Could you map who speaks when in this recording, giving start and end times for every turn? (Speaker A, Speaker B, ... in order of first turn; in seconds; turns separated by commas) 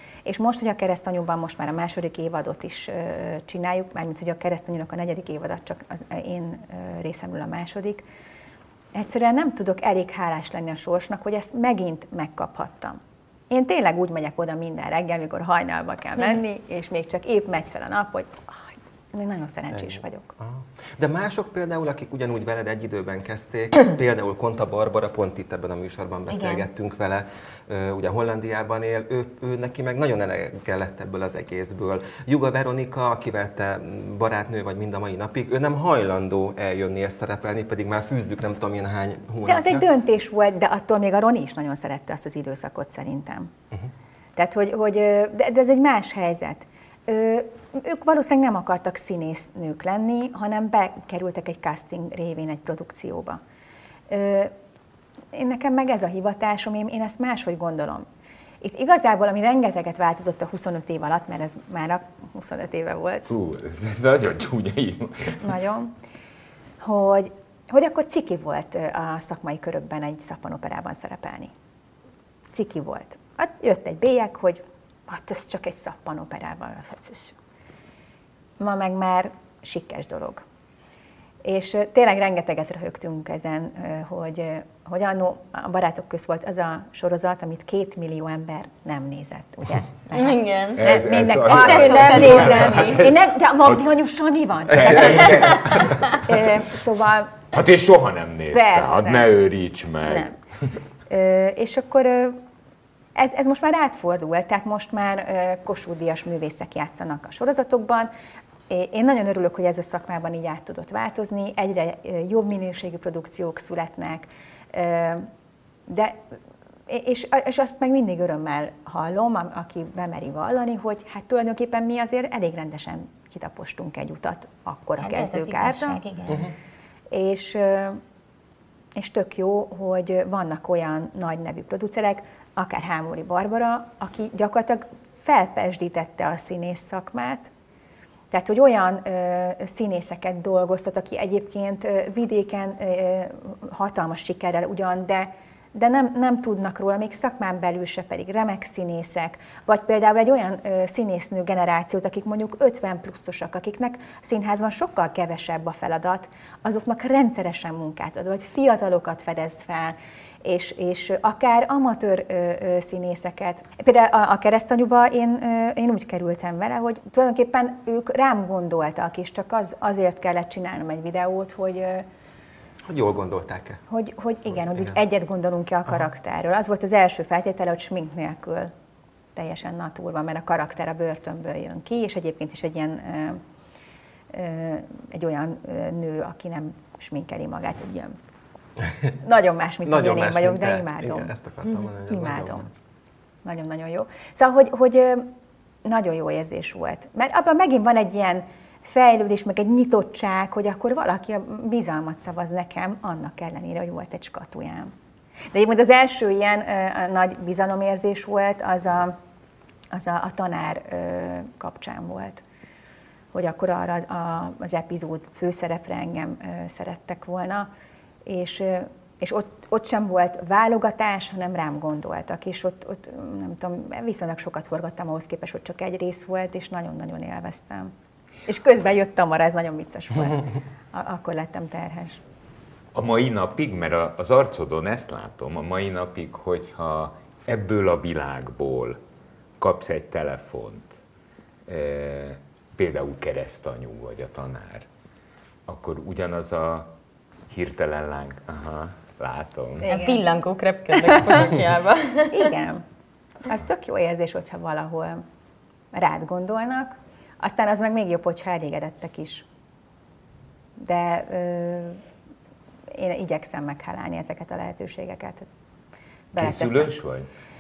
Speaker A: 0.2-8.0, Speaker A: 8.9-13.0, Speaker A: 13.5-20.3, Speaker B: 19.7-39.8, Speaker C: 26.3-26.7, Speaker A: 39.4-43.5, Speaker A: 44.4-53.4, Speaker A: 54.1-54.5, Speaker A: 55.3-58.1, Speaker A: 58.6-63.3, Speaker D: 63.3-65.5, Speaker A: 65.4-65.9, Speaker A: 66.8-71.5, Speaker A: 72.5-77.3, Speaker A: 78.6-80.4, Speaker A: 81.4-97.4, Speaker C: 90.1-90.9, Speaker D: 90.7-93.8, Speaker C: 91.4-93.0, Speaker D: 94.7-96.6, Speaker D: 97.5-100.3, Speaker A: 98.5-99.3, Speaker A: 100.0-100.3, Speaker A: 101.1-102.4, Speaker A: 103.1-108.1, Speaker A: 108.7-115.3, Speaker A: 115.9-116.3, Speaker A: 116.9-126.0, Speaker C: 125.0-126.5, Speaker B: 126.3-126.5, Speaker A: 127.1-128.0, Speaker A: 128.9-137.5, Speaker A: 138.3-172.0, Speaker B: 172.9-173.8, Speaker A: 173.9-178.7, Speaker A: 179.3-183.4, Speaker A: 184.3-188.2, Speaker A: 189.2-191.3, Speaker B: 189.8-192.7, Speaker A: 192.1-192.7, Speaker A: 193.4-195.3, Speaker A: 195.8-204.9, Speaker A: 205.5-209.1, Speaker A: 209.9-212.4, Speaker A: 213.3-217.7, Speaker A: 218.2-227.9, Speaker A: 228.5-232.2, Speaker D: 232.9-239.0, Speaker D: 239.6-241.0, Speaker D: 241.7-244.9, Speaker D: 245.7-246.9, Speaker D: 247.5-249.9, Speaker A: 249.8-250.2, Speaker C: 249.9-252.5, Speaker A: 251.1-251.4, Speaker A: 252.3-252.8, Speaker A: 253.4-255.2, Speaker A: 255.9-259.4, Speaker A: 260.8-262.0, Speaker A: 262.9-265.5, Speaker A: 266.3-266.9, Speaker D: 266.3-267.3